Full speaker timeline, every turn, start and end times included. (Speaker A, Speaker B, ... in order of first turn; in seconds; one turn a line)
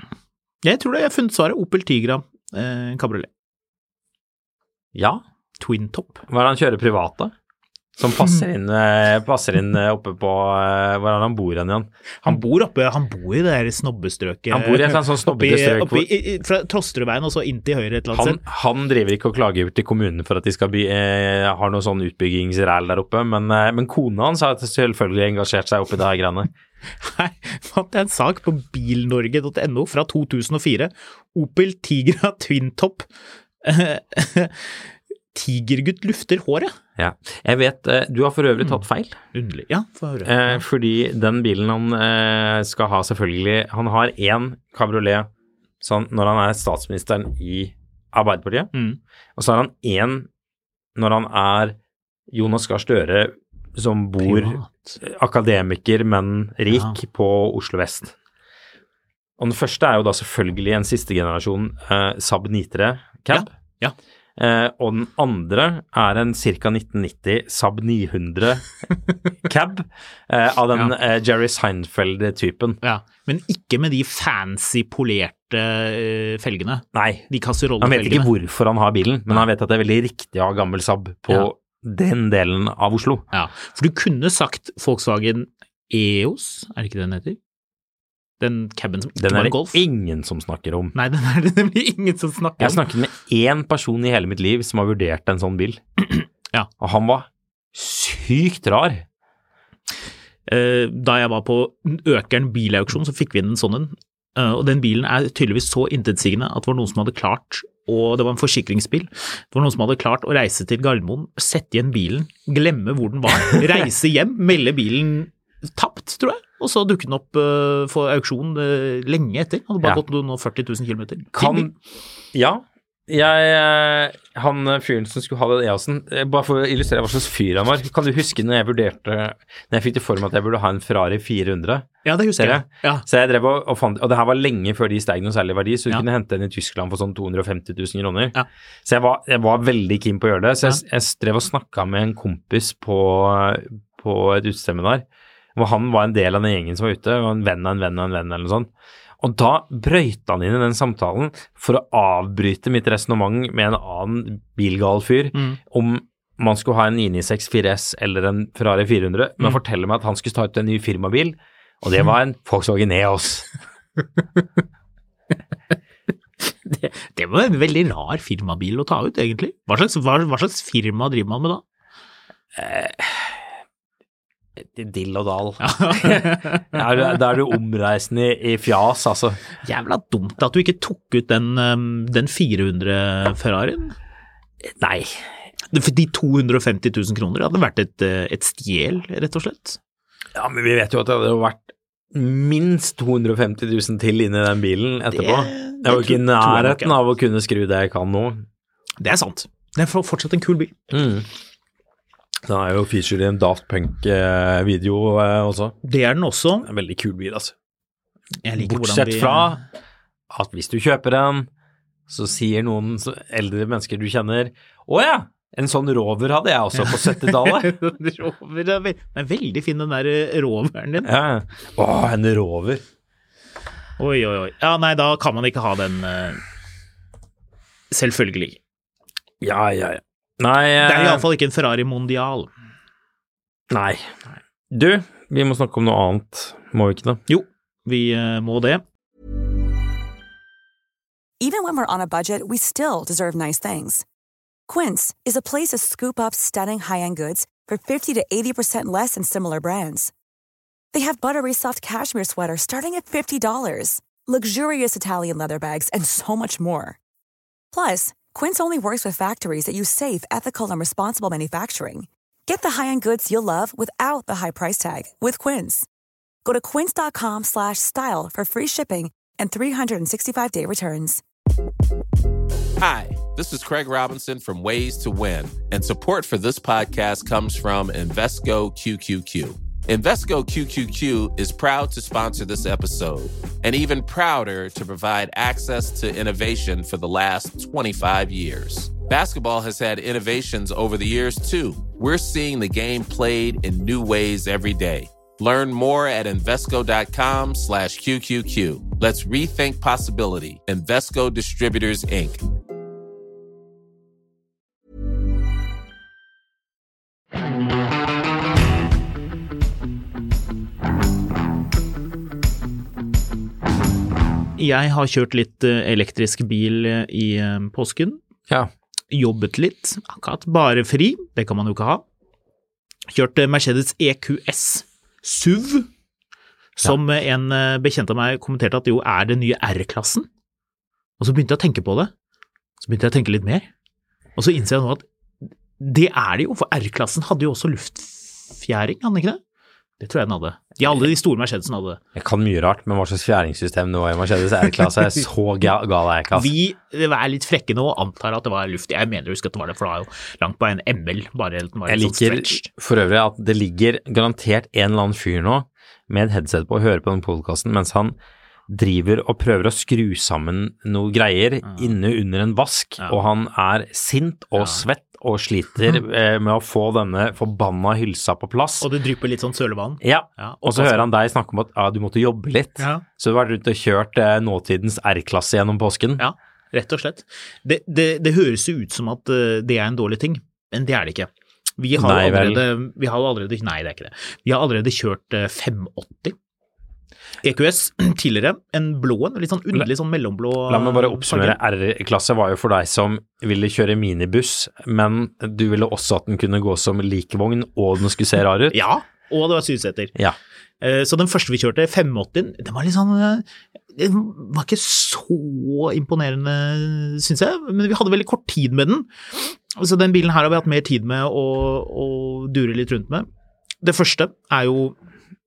Speaker A: 0.6-3.3
Speaker B: 5.0-5.2
Speaker A: 5.6-6.2
Speaker B: 6.3-7.3
Speaker B: 8.0-12.4
Speaker A: 12.2-18.4
Speaker B: 14.5-16.1
Speaker B: 18.1-26.5
Speaker A: 27.0-33.1
Speaker A: 33.6-36.7
Speaker B: 37.0-39.2
Speaker A: 39.3-40.6
Speaker B: 40.2-45.3
Speaker B: 45.8-48.7
Speaker A: 48.7-49.0
Speaker B: 49.4-50.3
Speaker B: 51.0-51.8
Speaker B: 52.3-58.1
Speaker A: 54.2-55.0
Speaker A: 56.7-57.0
Speaker B: 59.4-63.5
Speaker A: 63.3-64.0
Speaker B: 64.4-68.8
Speaker B: 69.4-72.8
Speaker A: 72.8-78.3
Speaker B: 76.9-83.2
Speaker A: 83.3-87.4
Speaker A: 88.4-89.8
Speaker B: 89.2-90.9
Speaker A: 90.9-92.8
Speaker B: 92.6-95.8
Speaker A: 96.1-96.7
Speaker B: 96.8-99.0
Speaker A: 100.5-121.7
Speaker B: 121.3-121.7
Speaker B: 122.3-148.7
Speaker A: 132.1-133.1
Speaker B: 149.2-163.5
Speaker A: 155.3-155.6
Speaker A: 166.4-171.6
Speaker B: 172.6-173.4
Speaker B: 174.6-179.4
Speaker A: 175.6-176.8
Speaker A: 179.6-183.9
Speaker B: 184.6-185.2
Speaker A: 185.7-189.8
Speaker B: 190.3-198.5
Speaker A: 195.1-197.0
Speaker A: 199.0-200.7
Speaker B: 200.9-201.3
Speaker B: 202.5-205.8
Speaker A: 205.8-206.7
Speaker B: 206.6-207.5
Speaker A: 208.4-209.6
Speaker B: 208.6-209.6
Speaker B: 210.3-211.5
Speaker B: 212.1-217.8
Speaker A: 216.9-221.1
Speaker B: 221.0-222.8
Speaker A: 224.0-226.4
Speaker A: 227.9-228.6
Speaker B: 229.4-231.3
Speaker A: 230.8-232.5
Speaker B: 233.7-234.1
Speaker B: 234.7-237.2
Speaker A: 237.3-238.8
Speaker C: 241.4-244.0
Speaker C: 244.7-250.1
Speaker C: 250.9-257.0
Speaker C: 257.7-265.9
Speaker C: 266.4-271.2
Speaker D: 272.8-302.4
Speaker A: 314.6-318.2
Speaker A: 319.1-322.0
Speaker A: 323.1-325.9
Speaker A: 326.8-330.3
Speaker A: 331.2-332.1
Speaker A: 332.8-333.7
Speaker A: 334.4-335.1
Speaker A: 335.8-339.4
Speaker A: 340.0-342.0
Speaker B: 342.1-346.5
Speaker A: 346.3-352.7
Speaker B: 351.9-358.2
Speaker B: 358.7-368.9
Speaker A: 361.6-361.9
Speaker A: 364.6-364.8
Speaker A: 368.8-371.1
Speaker B: 370.0-376.2
Speaker A: 372.8-373.0
Speaker A: 376.2-386.4
Speaker B: 381.9-382.6
Speaker A: 387.4-391.6
Speaker B: 390.6-398.8
Speaker A: 398.7-400.1
Speaker A: 400.8-413.3
Speaker A: 413.8-414.9